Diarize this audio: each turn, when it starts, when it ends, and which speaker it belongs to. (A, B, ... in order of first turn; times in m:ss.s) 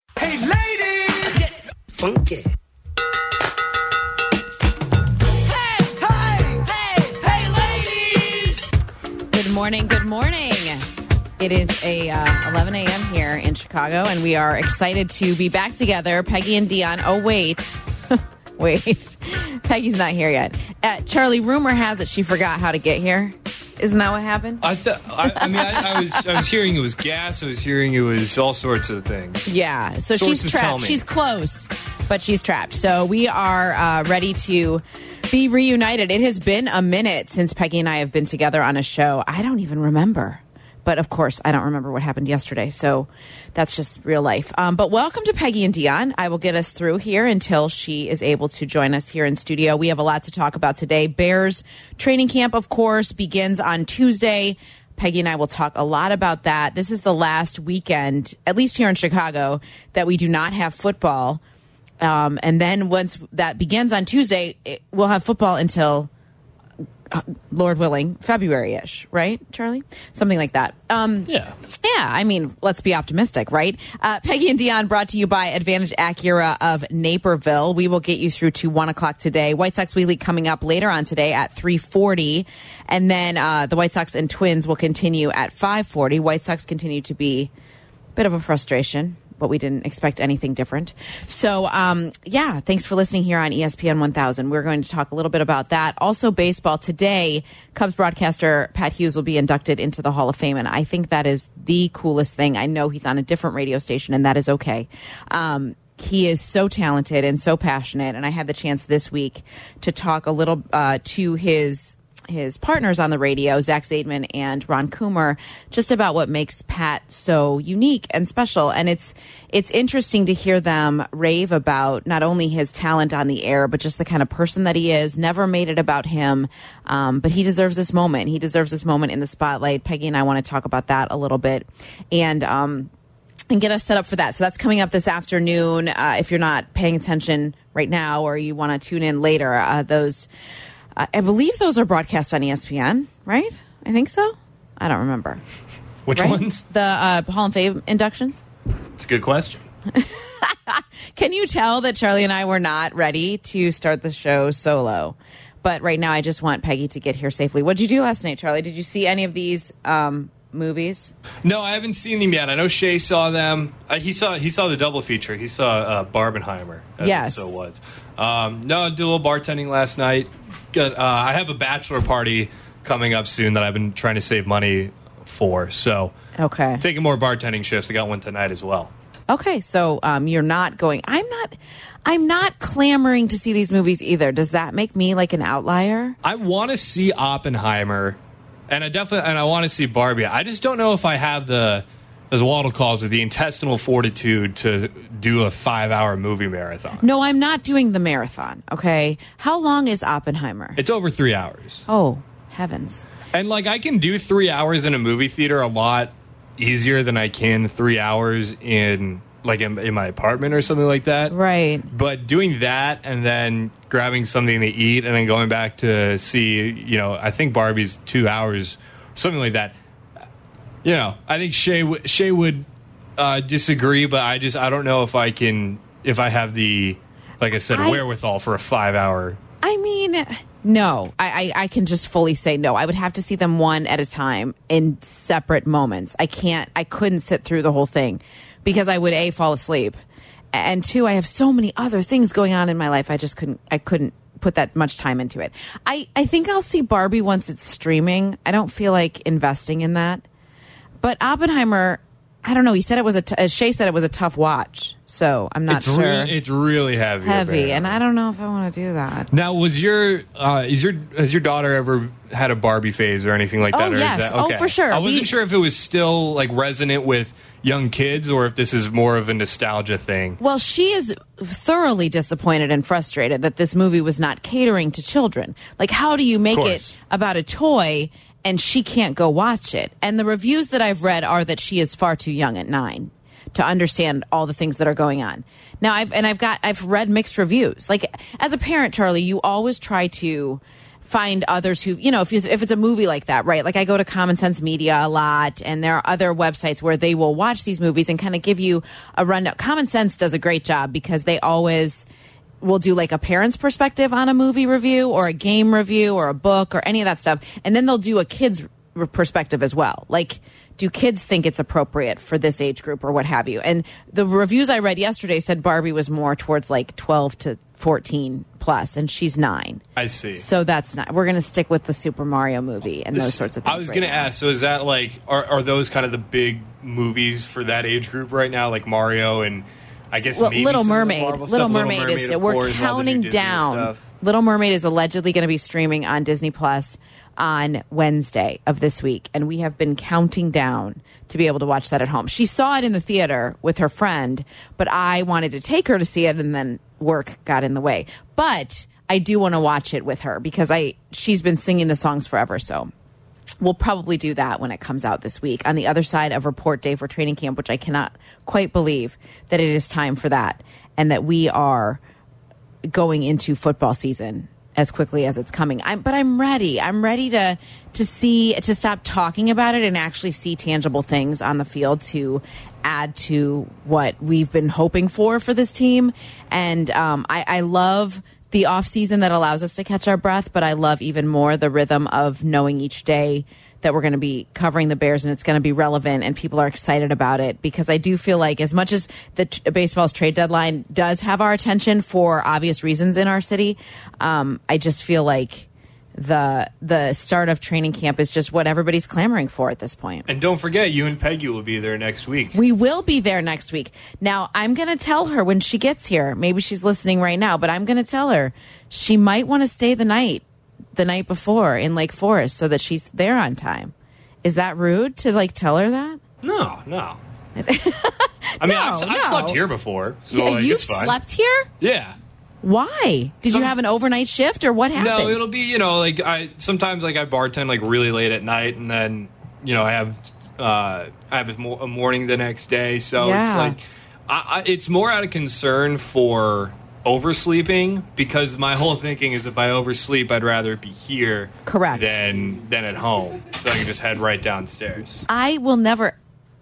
0:00.2-0:01.4 A
0:02.0-0:02.4 A
0:05.5-0:08.6 A
0:09.3-0:24.6 B
0:24.6-0:29.5 C
0:25.2-0:26.4 B
0:29.5-1:01.4 B
0:30.1-0:31.0 C
1:02.0-1:06.1 B
1:07.1-1:27.5 B
1:11.3-1:11.5 C
1:28.2-2:12.9 B
2:13.5-2:20.3 B
2:21.0-2:25.4 B
2:26.1-2:26.6 C
2:26.1-2:28.4 B
2:29.0-2:29.7 C
2:29.9-2:41.1 B
2:41.4-2:56.1 C
2:47.0-2:47.6 B
2:56.4-2:56.8 B
2:56.8-2:58.9 C
2:59.3-3:06.2 B
3:06.2-3:08.2 C
3:08.7-3:17.0 C
3:17.0-3:20.8 B
3:20.8-3:21.8 C
3:21.9-3:23.0 B
3:23.3-3:31.4 C
3:31.3-3:31.9 B
3:31.9-3:39.8 C
3:40.8-3:42.7 C
3:43.2-3:49.4 C
3:47.7-3:48.0 B
3:49.6-4:00.0 B
4:00.5-4:10.2 B
4:11.0-4:16.4 B
4:15.7-4:18.0 C
4:17.2-4:19.3 B
4:19.3-4:30.4 C
4:23.7-4:25.3 B
4:30.4-5:02.1 B
4:36.5-4:36.9 C
5:02.6-5:19.8 B
5:20.0-5:20.4 C
5:20.4-5:24.3 B
5:23.1-5:34.0 C
5:30.4-5:52.9 B
5:53.6-6:02.0 B
6:02.9-6:40.2 B
6:40.3-6:42.6 C
6:42.5-6:50.4 B
6:50.9-6:56.2 B
6:56.4-6:57.2 C
6:57.6-6:59.6 B
6:58.6-7:01.2 C
7:00.3-7:01.7 B
7:01.8-7:02.2 C
7:02.6-7:05.4 B
7:05.0-7:25.2 C
7:13.2-7:13.8 B
7:21.6-7:22.2 B
7:25.3-7:26.2 B